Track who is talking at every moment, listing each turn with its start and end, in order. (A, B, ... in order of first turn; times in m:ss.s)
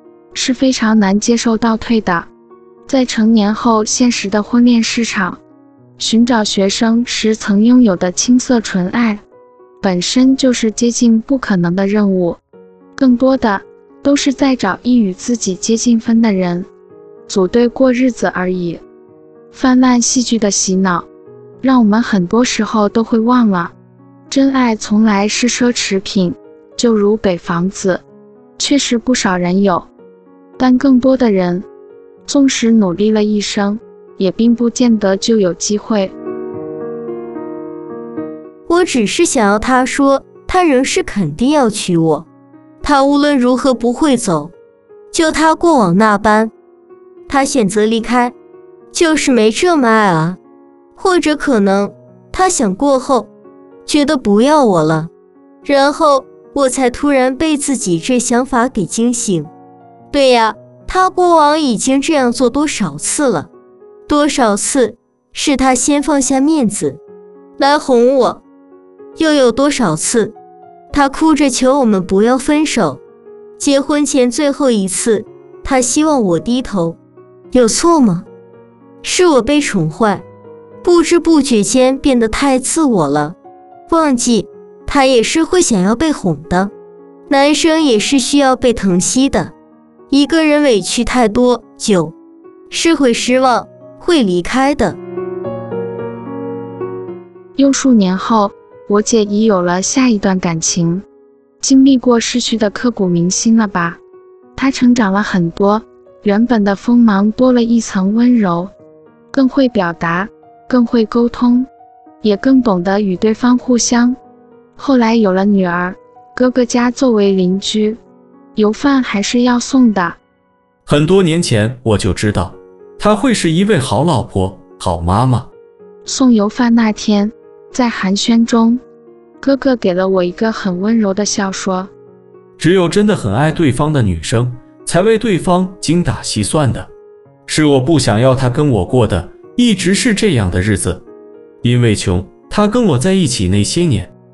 0:00.3-0:02.3 A
0:02.9-0:05.4 A
0:06.0-0:09.2 A
0:09.8-0:12.4 A
0:13.0-0:16.7 A
0:17.3-0:18.8 A
0:19.5-0:21.1 A
0:21.6-0:23.7 A
0:24.3-0:28.0 A
0:28.6-0:29.9 A
0:30.6-0:31.7 A
0:32.3-0:36.1 A
0:38.7-0:42.3 B
0:42.8-0:44.5 B
0:45.1-0:46.5 B
0:47.3-0:48.4 B
0:48.9-0:50.4 B
0:51.0-0:53.3 B
0:53.9-0:55.1 B
0:55.6-0:59.5 B
1:00.1-1:03.5 B
1:04.1-1:07.0 B
1:07.6-1:08.4 B
1:09.2-1:10.3 B
1:10.9-1:13.0 B
1:13.6-1:17.0 B
1:17.5-1:18.3 B
1:19.0-1:20.2 B
1:20.8-1:23.4 B
1:23.9-1:26.7 B
1:27.3-1:29.5 B
1:30.1-1:32.1 B
1:32.7-1:35.0 B
1:37.6-1:41.0 A
1:41.6-1:44.0 A
1:44.6-1:48.7 A
1:49.3-1:51.7 A
1:52.2-1:54.2 A
1:54.8-1:58.0 A
1:58.6-2:00.2 A
2:00.9-2:05.5 C
2:06.1-2:08.8 A
2:09.4-2:11.9 A
2:12.6-2:16.9 C
2:17.5-2:21.0 C
2:21.6-2:24.1 C